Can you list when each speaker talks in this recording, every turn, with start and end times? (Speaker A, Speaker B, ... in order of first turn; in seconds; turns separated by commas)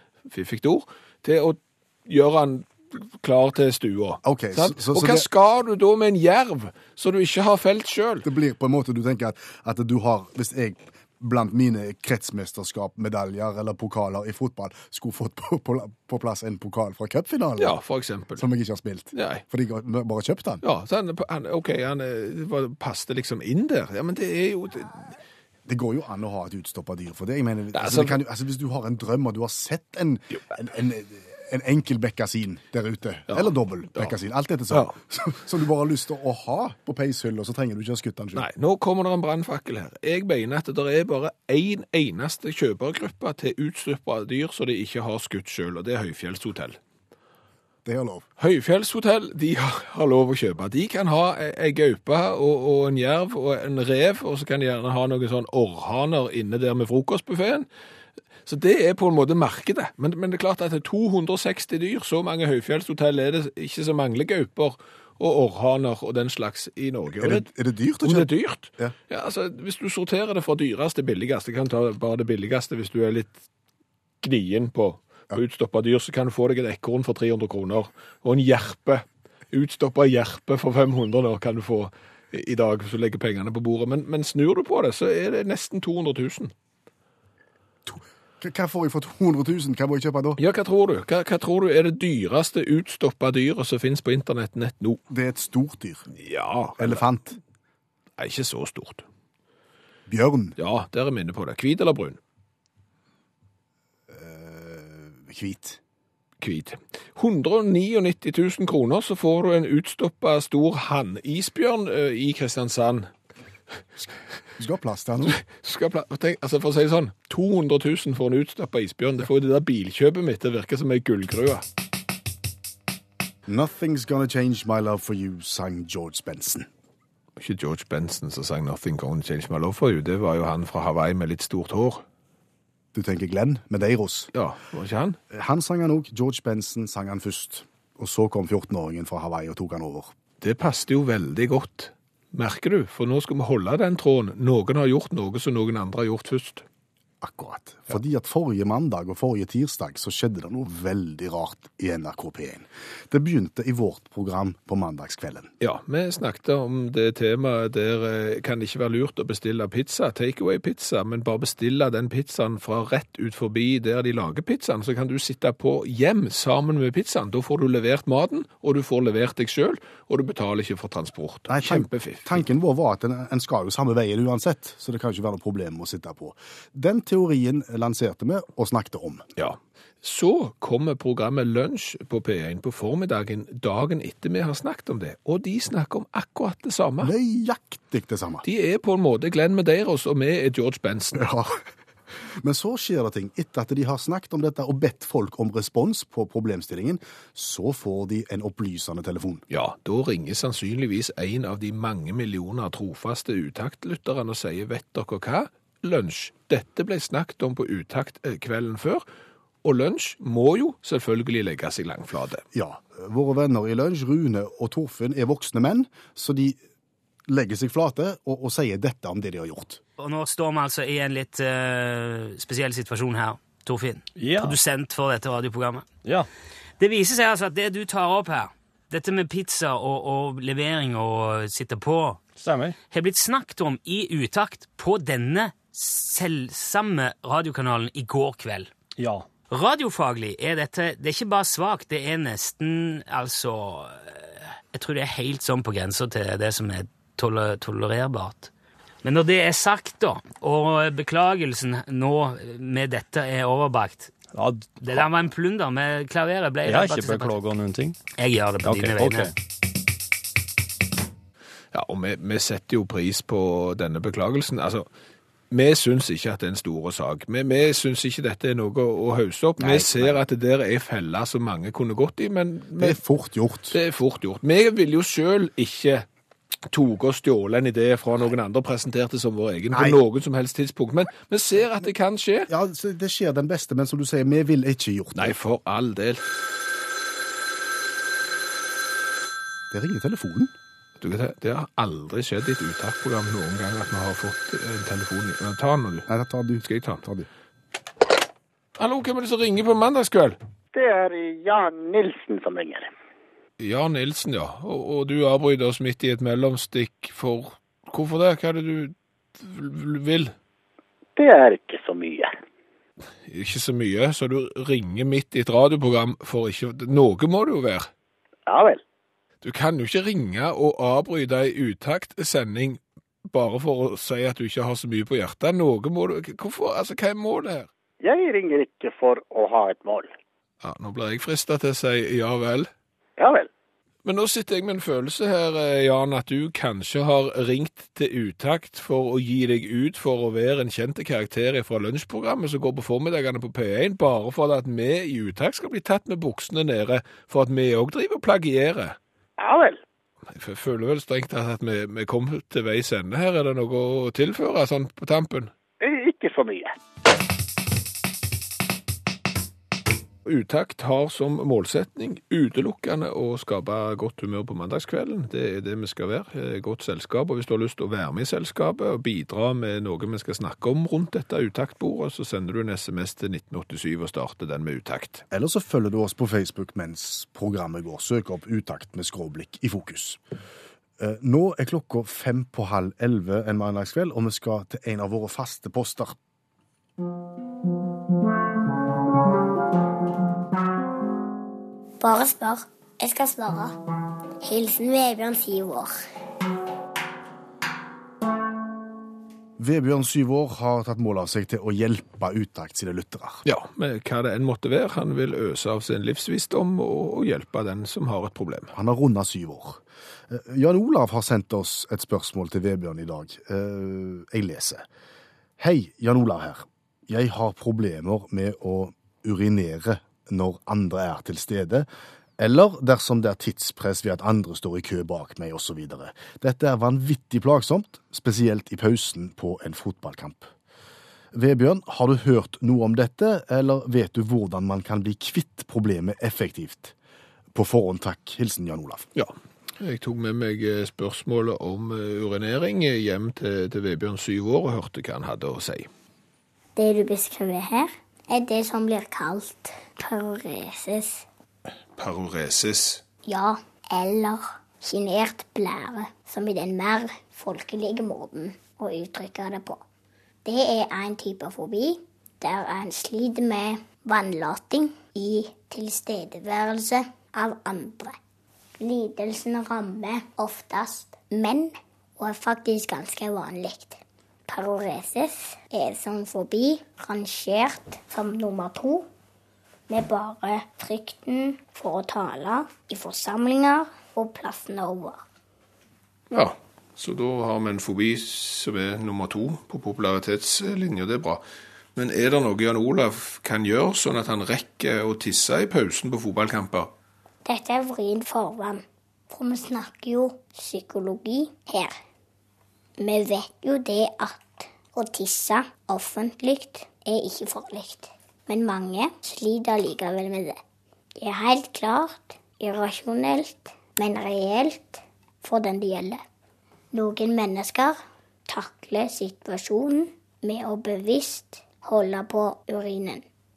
Speaker A: 0.3-8.3, Speaker B: 4.2-5.3, Speaker B: 8.2-17.8, Speaker A: 17.6-18.4, Speaker B: 18.4-20.6, Speaker A: 19.1-19.4, Speaker A: 20.6-25.1, Speaker B: 25.7-38.5, Speaker A: 27.7-28.2, Speaker A: 33.3-34.1, Speaker A: 38.4-46.8, Speaker B: 47.9-48.3, Speaker A: 48.4-57.7, Speaker A: 58.5-67.5, Speaker B: 67.2-68.9, Speaker A: 68.0-73.4, Speaker A: 74.2-86.5, Speaker B: 87.9-90.4, Speaker A: 90.4-95.0, Speaker B: 95.1-96.1, Speaker A: 96.2-97.0, Speaker B: 96.8-97.4, Speaker A: 98.2-99.0, Speaker B: 100.1-100.6, Speaker A: 100.6-102.2, Speaker B: 104.1-105.8, Speaker A: 106.4-113.1, Speaker B: 114.6-115.4, Speaker A: 115.3-121.6, Speaker B: 123.5-126.7, Speaker A: 127.4-132.0, Speaker B: 132.9-134.3, Speaker A: 134.3-135.2, Speaker B: 135.3-140.1, Speaker A: 140.4-146.7, Speaker B: 147.2-155.5, Speaker A: 155.6-172.4, Speaker B: 171.5-179.3, Speaker A: 179.4-187.1, Speaker B: 187.0-188.4, Speaker A: 188.4-191.3, Speaker B: 191.2-191.6, Speaker B: 192.4-199.4, Speaker A: 199.5-209.1, Speaker A: 209.6-212.4, Speaker B: 212.5-216.6, Speaker B: 217.3-219.8, Speaker C: 220.0-225.9, Speaker D: 224.2-224.6, Speaker D: 226.0-226.3, Speaker C: 226.8-232.2, Speaker D: 232.4-232.8, Speaker C: 232.9-238.7, Speaker D: 239.0-239.3, Speaker C: 239.5-248.5, Speaker C: 249.0-254.1, Speaker D: 254.3-255.1, Speaker C: 254.8-257.4, Speaker D: 256.6-258.0, Speaker C: 258.2-259.3, Speaker D: 258.6-259.3, Speaker A: 261.7-264.9, Speaker A: 265.5-273.0, Speaker B: 269.6-270.2, Speaker B: 272.8-273.8, Speaker A: 273.7-276.1, Speaker A: 276.7-282.5, Speaker B: 279.7-280.0, Speaker B: 282.5-285.4, Speaker A: 285.1-286.3, Speaker B: 289.7-290.5, Speaker A: 291.0-296.1, Speaker B: 296.1-297.3, Speaker A: 296.6-297.0, Speaker A: 298.8-300.4, Speaker E: 300.7-302.9, Speaker A: 303.6-310.4, Speaker E: 311.2-312.3, Speaker A: 313.3-317.9, Speaker E: 318.5-318.8, Speaker A: 319.4-327.7, Speaker E: 328.0-330.1, Speaker A: 330.6-332.7, Speaker E: 333.2-333.5, Speaker A: 334.1-349.0, Speaker E: 349.4-349.8, Speaker A: 350.3-355.5, Speaker E: 355.8-356.7, Speaker A: 360.2-375.2, Speaker B: 375.3-380.2, Speaker B: 381.0-386.2, Speaker F: 392.0-393.8, Speaker F: 394.4-395.9, Speaker B: 399.6-403.4, Speaker A: 403.4-408.7, Speaker B: 408.7-414.8, Speaker B: 415.6-430.5, Speaker B: 431.3-436.9, Speaker B: 437.5-439.1, Speaker A: 439.1-445.9, Speaker F: 446.8-451.2, Speaker A: 452.0-453.0, Speaker F: 453.3-459.8, Speaker F: 460.4-468.2, Speaker F: 468.8-479.1, Speaker F: 479.9-485.2, Speaker A: 486.3-491.4, Speaker A: 492.0-496.9, Speaker F: 497.4-501.9, Speaker F: 503.0-510.6, Speaker F: 511.2-516.2, Speaker F: 516.9-518.0, Speaker F: 518.5-523.2